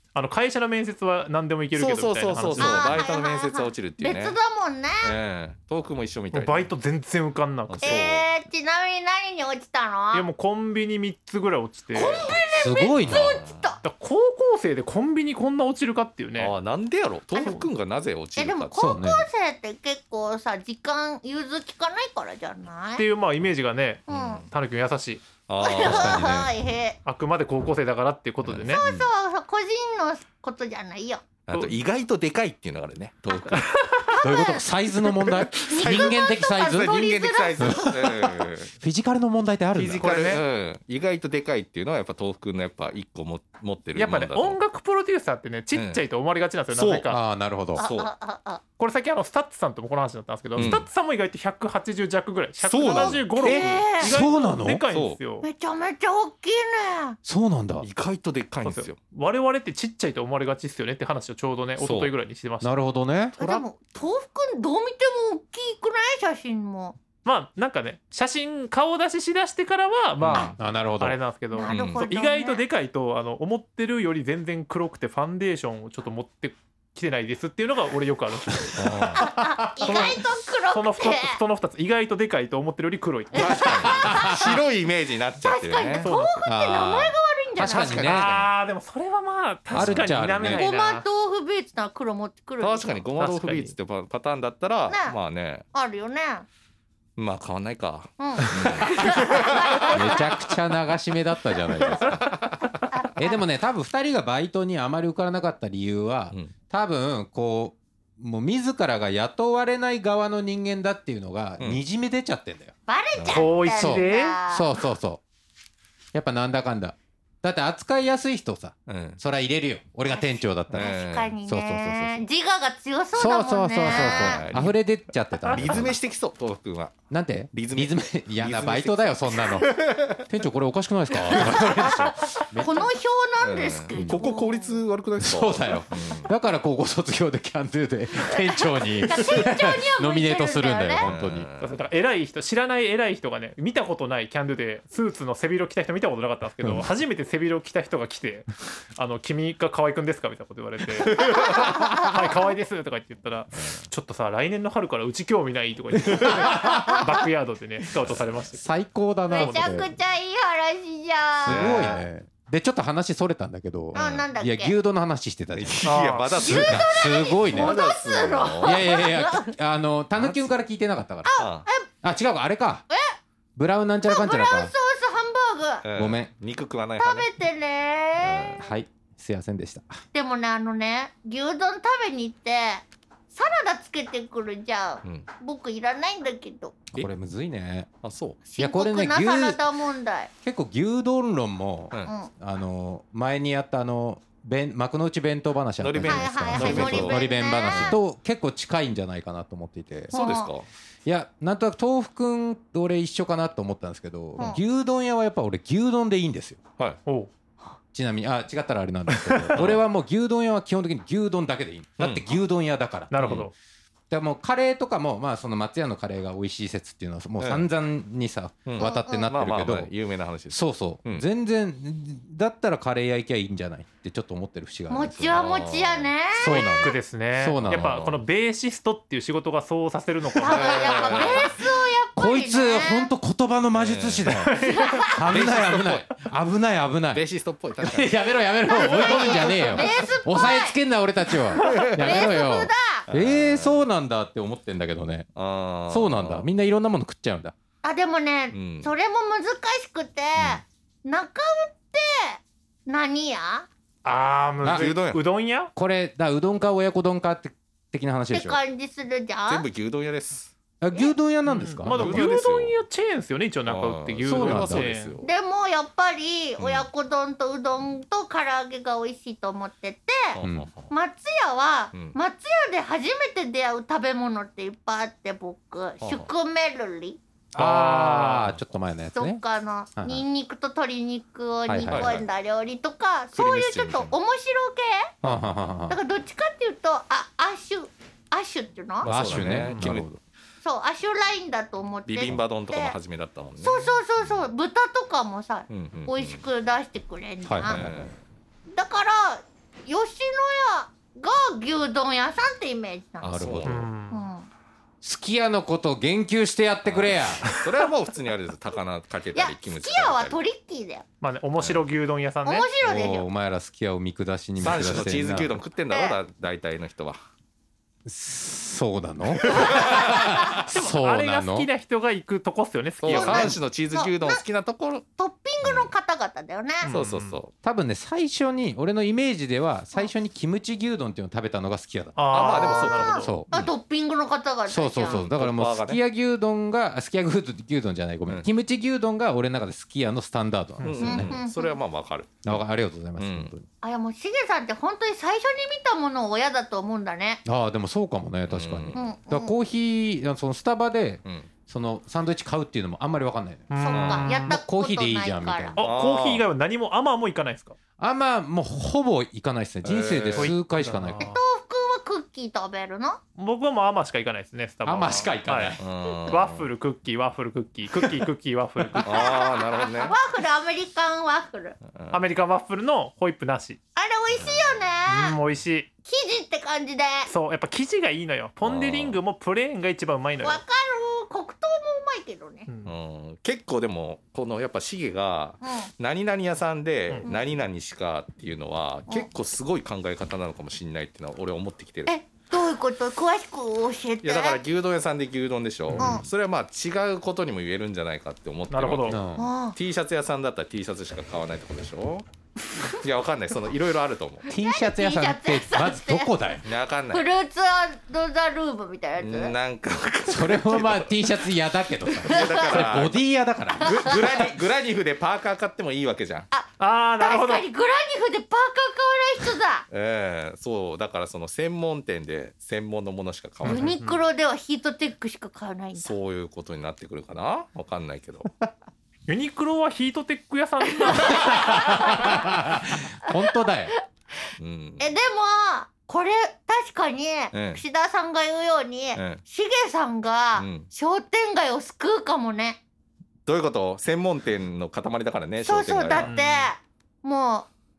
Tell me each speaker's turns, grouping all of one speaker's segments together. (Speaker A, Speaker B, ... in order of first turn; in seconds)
Speaker A: 0.1-3.1, 6.3-8.1, 10.1-12.3, 13.8-16.5, 17.3-17.6, 22.9-25.4, 27.0-28.8, 33.6-34.1, 39.9-40.4, 43.9-47.2, 48.8-55.5, 58.6-62.7, 67.2-83.8, 86.0-86.3, 88.0-91.0, 93.2-93.7, 113.3-114.4, 141.6-158.7, 159.3-159.7, 165.8-166.4, 207.0-207.3, 209.1-209.6, 213.1-213.5, 226.4-231.4, 234.4-235.1, 238.9-239.7, 254.0-255.7, 261.4-265.1, 277.5-278.6, 289.5-290.0, 303.6-304.3, 311.2-312.7, 320.7-323.6, 326.8-327.4, 332.1-333.3, 353.7-354.6, 355.8-357.8, 360.3-361.4, 363.4-365.8, 366.3-369.1, 372.1-373.8, 375.1-375.9, 377.3-380.6, 382.7-382.9, 398.7-399.2, 416.8-417.6, 423.6-424.2, 429.3-431.6, 446.1-446.7
Speaker B: 1.7-4.4, 5.0-6.7, 7.7-8.3, 13.0-13.6, 16.4-18.8, 24.1-24.4, 25.5-26.4, 31.5-33.7, 35.3-38.7, 39.7-44.6, 45.7-46.0, 46.7-47.0, 47.8-48.1, 50.5-50.9, 52.6-53.8, 54.9-55.2, 57.8-59.0, 61.8-62.1, 70.2-70.5, 71.7-72.1, 78.7-79.3, 83.3-86.4, 87.7-88.3, 89.7-90.2, 92.6-95.6, 97.2-99.0, 102.0-102.7, 113.2-113.5, 118.9-119.2, 120.7-121.3, 123.8-124.7, 125.5-126.9, 127.5-130.1, 133.4-136.3, 141.0-141.8, 161.5-162.0, 163.9-164.3, 165.5-166.9, 167.4-168.8, 170.2-170.5, 171.4-171.7, 175.8-177.3, 178.2-178.7, 188.0-188.4, 195.8-198.0, 200.1-200.7, 209.6-209.8, 212.0-212.3, 213.2-213.5, 217.4-217.7, 218.7-221.3, 225.3-226.1, 227.6-228.2, 230.4-231.5, 233.7-234.3, 235.3-236.1, 237.1-238.1, 241.5-242.2, 243.1-243.8, 245.3-246.5, 248.5-248.9, 254.7-255.2, 259.5-260.5, 261.9-262.8, 263.7-265.2, 266.6-266.9, 270.3-270.9, 276.0-276.3, 281.9-282.3, 283.3-284.1, 285.2-285.6, 289.0-290.1, 292.1-293.9, 295.7-296.4, 297.7-298.1, 303.2-303.8, 306.8-310.4, 311.6-311.9, 314.6-317.2, 319.4-320.6, 323.0-325.0, 325.6-325.9, 326.9-327.5, 332.3-333.3, 335.0-336.0, 340.8-342.6, 343.2-343.5, 348.5-349.1, 351.2-351.5, 353.9-354.2, 355.8-356.4, 359.8-360.6, 365.8-366.6, 369.0-370.1, 371.9-372.2, 374.3-374.9, 378.6-379.2, 382.9-392.1, 394.2-399.2, 399.7-402.2, 403.0-404.5, 406.6-407.3, 409.2-411.1, 412.2-413.2, 413.8-416.5, 419.9-423.9, 426.0-428.5, 434.6-435.1, 437.5-437.8, 439.1-439.4, 440.6-440.9, 443.5-446.4
Speaker C: 2.6-5.1, 7.8-10.3, 11.9-13.8, 18.4-23.1, 24.1-24.4, 25.6-27.0, 28.7-31.2, 34.1-34.6, 35.5-37.8, 47.8-48.6, 53.0-54.2, 55.4-57.2, 63.4-67.0, 71.5-72.6, 79.2-81.4, 83.3-84.5, 85.4-88.2, 90.4-93.0, 94.9-95.2, 95.7-96.5, 98.2-100.2, 102.9-103.4, 112.9-114.7, 120.1-124.5, 131.3-134.8, 138.5-141.1, 151.2-152.1, 159.3-162.0, 163.9-164.7, 166.4-169.5, 171.2-171.9, 172.9-173.2, 174.1-175.8, 177.0-178.6, 180.1-186.8, 188.4-190.3, 192.0-192.3, 196.0-198.0, 200.1-200.5, 218.8-219.3, 224.9-226.9, 230.3-233.1, 234.6-235.2, 238.7-240.8, 241.8-243.0, 247.8-253.7, 258.3-259.6, 265.2-270.4, 270.9-277.2, 279.1-285.1, 285.9-289.1, 290.6-293.0, 293.6-297.9, 298.7-303.5, 304.1-304.5, 309.3-311.0, 312.4-313.3, 315.9-316.2, 323.1-324.4, 325.2-327.0, 332.4-335.3, 341.0-341.8, 343.8-347.4, 348.9-349.5, 353.8-355.8, 361.2-363.2, 369.1-371.8, 373.9-375.4, 376.1-377.3, 380.4-382.7, 385.6-385.9, 387.2-387.5, 392.1-394.6, 395.9-396.2, 399.4-399.8, 404.5-406.3, 407.1-409.5, 412.4-412.8, 416.5-419.8, 423.6-426.1, 430.9-432.5, 434.4-442.8, 445.6-447.7
Speaker D: 12.2-13.3, 18.8-19.2, 25.8-26.5, 28.4-29.1, 34.2-37.0, 37.6-40.1, 47.1-47.9, 50.5-50.8, 53.4-54.8, 57.2-57.9, 62.6-63.6, 70.6-71.2, 83.6-84.5, 86.5-88.5, 89.7-90.6, 98.5-102.2, 103.2-112.7, 113.7-115.2, 116.1-120.9, 121.5-122.3, 123.2-126.0, 127.1-132.9, 133.9-134.2, 135.2-141.5, 146.6-146.9, 156.2-157.2, 158.6-159.9, 161.4-167.8, 168.6-171.4, 172.0-172.8, 173.6-174.7, 175.9-176.3, 178.6-180.0, 186.9-187.9, 188.6-189.6, 190.4-200.1, 201.1-206.6, 207.9-213.5, 214.1-219.9, 220.5-225.4, 226.3-227.9, 232.2-237.2, 237.8-245.3, 245.9-247.5, 254.6-255.0, 255.8-258.6, 260.8-262.3, 264.2-264.9, 270.4-270.7, 277.5-279.4, 280.0-280.2, 281.7-282.1, 285.2-286.0, 289.1-290.2, 297.4-298.1, 303.2-303.9, 305.0-307.5, 312.8-315.6, 318.1-321.7, 323.1-323.6, 327.6-333.7, 334.7-341.4, 342.4-343.6, 347.4-353.7, 354.2-355.9, 358.0-361.4, 364.8-365.8, 399.1-399.5, 404.5-406.7, 410.3-414.2, 431.3-433.9